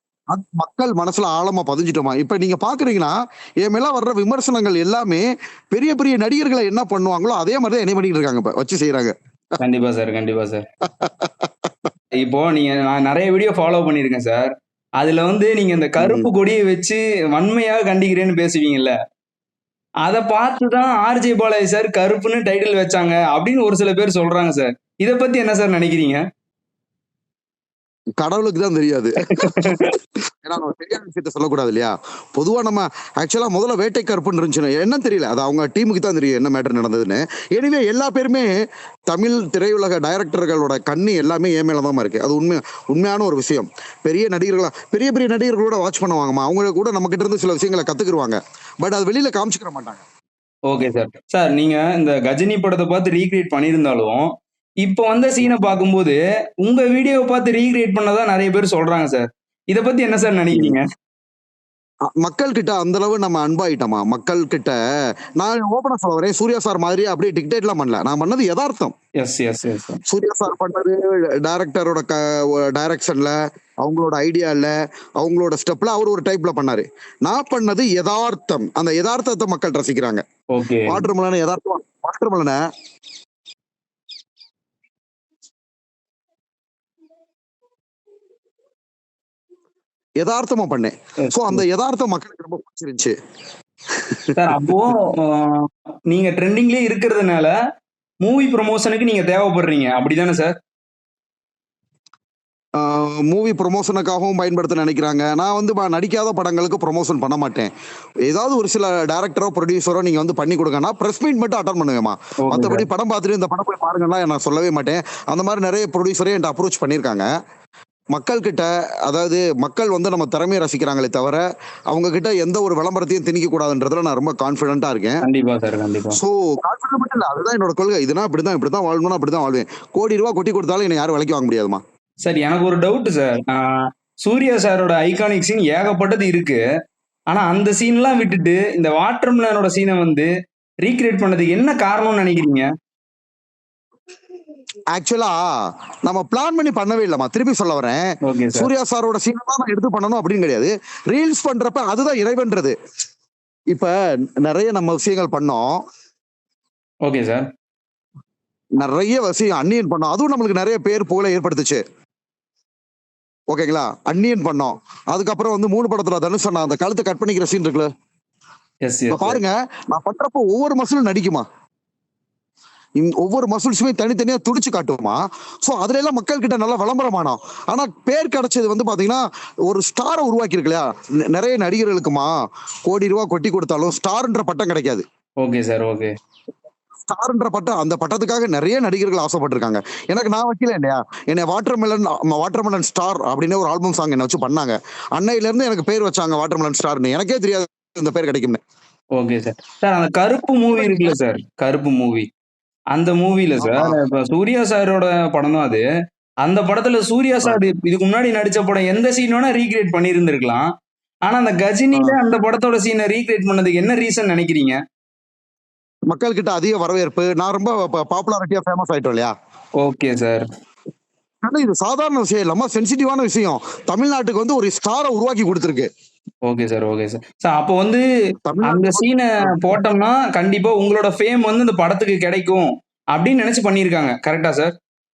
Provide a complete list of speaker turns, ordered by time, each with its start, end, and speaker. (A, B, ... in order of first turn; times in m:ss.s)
0:00.3-0:09.1 A
0:09.6-0:10.6 B
0:11.0-0:11.5 A
0:12.2-0:18.9 B
0:16.0-0:16.3 A
0:20.0-0:26.2 B
0:28.2-0:29.8 A
0:29.3-0:30.0 B
0:30.4-0:38.5 A
0:39.1-0:50.0 A
0:50.7-0:54.2 B
0:54.8-1:00.8 B
1:02.2-1:04.8 A
1:05.4-1:08.9 A
1:09.2-1:10.0 B
1:10.1-1:20.2 A
1:20.5-1:21.0 B
1:20.9-1:22.6 A
1:30.2-1:33.2 A
1:31.2-1:31.6 B
1:33.9-1:34.6 A
1:34.4-1:37.5 B
1:38.2-1:40.5 B
1:42.8-1:47.7 A
1:48.3-1:57.3 A
1:52.4-1:52.8 B
1:58.1-2:05.2 A
2:05.2-2:06.2 B
2:06.1-2:11.8 A
2:12.2-2:16.6 B
2:17.3-2:20.3 B
2:20.8-2:22.7 B
2:24.9-2:25.4 A
2:26.0-2:32.8 A
2:28.2-2:28.7 B
2:33.7-2:35.8 A
2:37.1-2:37.5 B
2:38.8-2:41.8 A
2:43.5-2:47.9 A
2:48.8-2:49.4 B
2:49.1-2:51.4 A
2:53.0-3:02.3 A
3:02.8-3:05.0 A
3:05.4-3:06.1 B
3:07.1-3:18.6 A
3:19.2-3:22.3 B
3:20.8-3:21.2 A
3:22.9-3:25.8 B
3:23.6-3:24.0 A
3:26.4-3:30.7 B
3:31.3-3:34.8 B
3:36.1-3:39.3 A
3:39.8-3:40.4 B
3:41.4-3:45.9 A
3:46.4-3:48.0 B
3:48.5-3:49.8 A
3:48.6-3:54.7 B